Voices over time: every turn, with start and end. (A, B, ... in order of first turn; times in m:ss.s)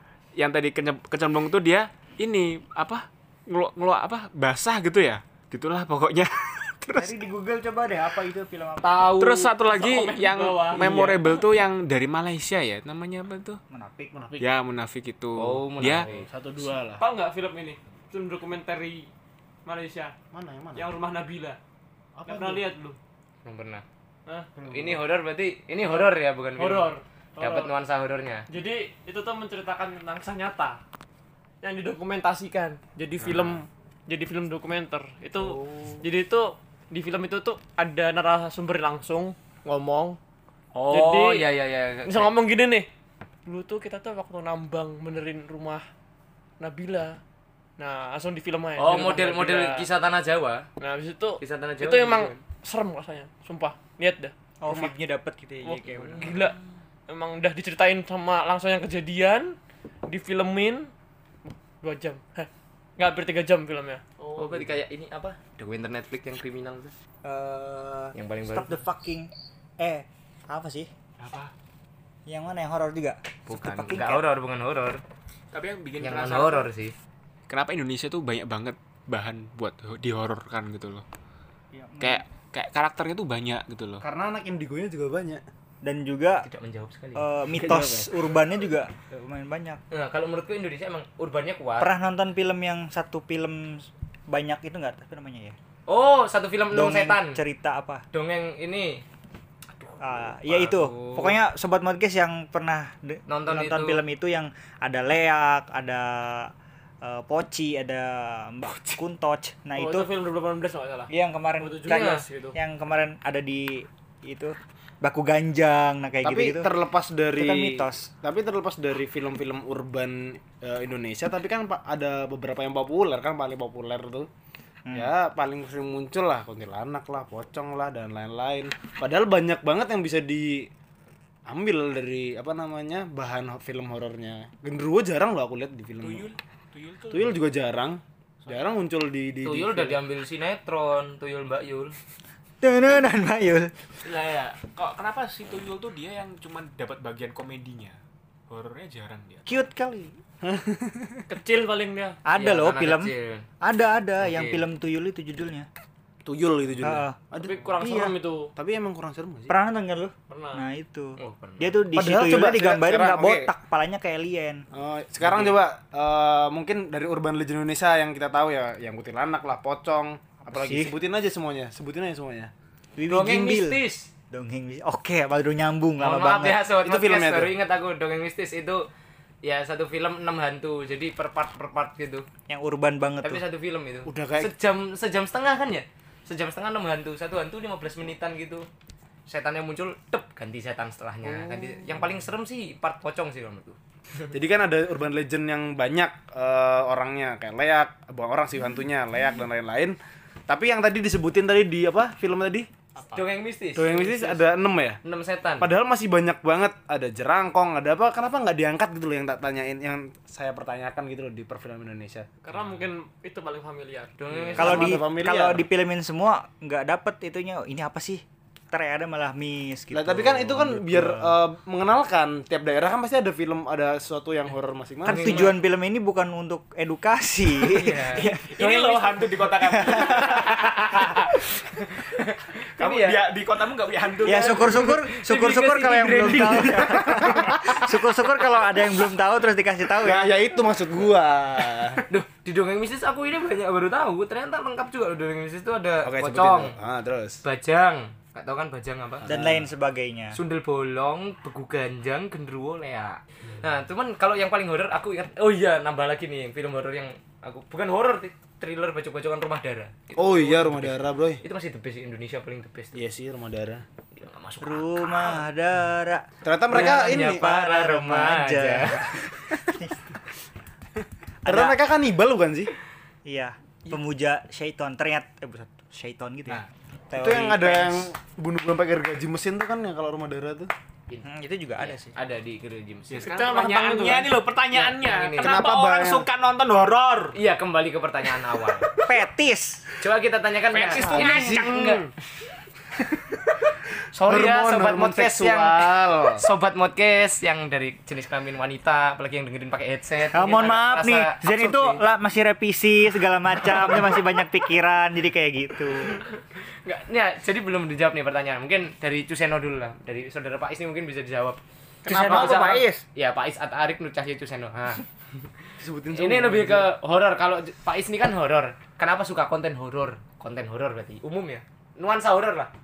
0:00.3-0:07.2 A
0:06.9-0:09.1 B
0:08.8-0:09.5 C
0:09.2-0:13.6 A
0:09.6-0:11.4 D
0:13.7-0:14.1 B
0:14.1-0:14.5 E
0:14.4-0:16.1 A
0:15.3-0:16.2 C
0:16.1-0:17.0 E
0:16.6-0:19.1 D
0:19.6-0:20.1 D
0:20.3-0:20.8 E
0:20.7-0:21.6 D
0:22.2-0:22.7 E
0:22.2-0:23.0 D
0:23.4-0:23.8 C
0:24.6-0:25.0 E
0:24.6-0:28.5 C
0:26.6-0:27.7 D
0:28.5-0:30.8 D
0:31.6-0:40.2 D
0:33.2-0:33.6 A
0:40.7-0:42.3 C
0:40.9-0:41.4 D
0:42.0-0:42.9 D
0:43.4-0:45.8 D
0:46.6-0:47.2 D
0:47.8-0:49.8 D
0:48.8-0:50.6 C
0:50.8-0:54.9 D
0:51.4-0:52.4 C
0:54.6-0:56.4 B
0:55.6-0:56.5 D
0:57.1-1:00.9 D
1:01.8-1:04.6 D
1:04.3-1:06.9 C
1:07.2-1:10.9 B
1:08.1-1:08.7 C
1:11.2-1:11.5 A
1:12.3-1:14.2 B
1:13.5-1:15.0 C
1:15.5-1:16.7 A
1:16.0-1:16.9 C
1:17.5-1:21.0 A
1:21.7-1:22.2 B
1:22.0-1:24.0 A
1:24.0-1:25.4 E
1:25.8-1:26.4 B
1:26.4-1:27.2 C
1:27.2-1:29.8 B
1:27.5-1:28.1 E
1:29.9-1:31.9 C
1:31.8-1:35.6 B
1:35.9-1:37.4 C
1:36.7-1:38.0 B
1:38.1-1:39.0 C
1:40.0-1:46.5 B
1:40.4-1:41.4 C
1:43.3-1:44.0 C
1:47.0-1:50.1 B
1:49.8-1:52.6 D
1:51.1-1:56.7 B
1:51.9-1:52.2 C
1:56.2-2:04.3 E
1:57.3-1:58.1 B
2:04.9-2:10.7 E
2:11.5-2:16.3 E
2:16.0-2:17.4 A
2:17.1-2:20.0 E
2:19.4-2:22.0 C
2:22.6-2:23.7 B
2:24.1-2:24.5 D
2:24.1-2:28.0 A
2:28.5-2:29.5 A
2:29.4-2:30.2 B
2:30.4-2:31.2 E
2:31.3-2:32.2 D
2:32.2-2:35.7 B
2:32.3-2:33.5 C
2:34.2-2:34.6 C
2:36.2-2:39.5 E
2:36.8-2:37.2 B
2:37.4-2:38.5 D
2:39.5-2:44.6 B
2:40.3-2:40.6 D
2:41.2-2:41.8 C
2:41.9-2:43.5 E
2:44.7-2:52.5 E
2:45.2-2:45.5 B
2:50.5-2:50.9 B
2:53.0-2:56.6 B
2:53.1-2:54.1 C
2:56.0-2:58.8 C
2:56.8-2:57.5 E
2:59.4-3:02.2 C
3:02.5-3:03.4 B
3:03.2-3:08.7 C
3:04.0-3:04.5 E
3:09.3-3:13.8 C
3:11.3-3:12.0 E
3:14.3-3:20.0 E
3:20.5-3:22.7 E
3:23.0-3:23.2 D
3:23.0-3:24.4 C
3:23.8-3:25.0 E
3:25.0-3:25.7 C
3:25.6-3:32.3 E
3:32.4-3:34.1 D
3:34.2-3:35.0 C
3:34.3-3:35.6 E
3:34.6-3:41.4 B
3:39.9-3:45.5 E
3:45.0-3:45.6 C
3:45.1-3:48.4 B
3:47.7-3:48.6 C
3:48.1-3:50.7 A
3:48.6-3:49.2 D
3:50.1-3:51.1 C
3:52.0-3:53.2 C
3:52.8-3:54.9 A
3:54.2-4:00.3 B
3:54.3-3:57.0 C
4:00.0-4:02.0 E
4:02.1-4:06.8 C
4:06.0-4:07.4 E
4:07.4-4:09.4 C
4:09.2-4:10.4 B
4:10.3-4:22.9 C
4:20.2-4:21.4 E
4:22.9-4:23.8 E
4:24.1-4:25.4 C
4:24.6-4:26.2 B
4:26.4-4:27.4 E
4:26.7-4:29.1 C
4:26.8-4:30.0 B
4:31.4-4:31.8 B
4:31.4-4:32.7 E
4:33.2-4:38.1 B
4:37.1-4:40.7 E
4:41.1-4:43.3 C
4:41.2-4:42.1 B
4:43.1-4:47.4 A
4:43.2-4:45.7 D
4:44.8-4:45.6 C
4:45.4-4:46.3 E
4:47.3-4:48.9 C
4:49.1-4:49.8 B
4:50.0-4:52.1 C
4:50.7-4:52.0 A
4:51.0-4:52.0 E
4:54.1-5:02.0 C
4:54.2-4:56.4 E
5:00.3-5:06.2 B
5:06.8-5:15.0 C
5:12.0-5:13.0 B
5:12.2-5:12.6 D
5:15.8-5:16.9 E
5:16.1-5:22.7 C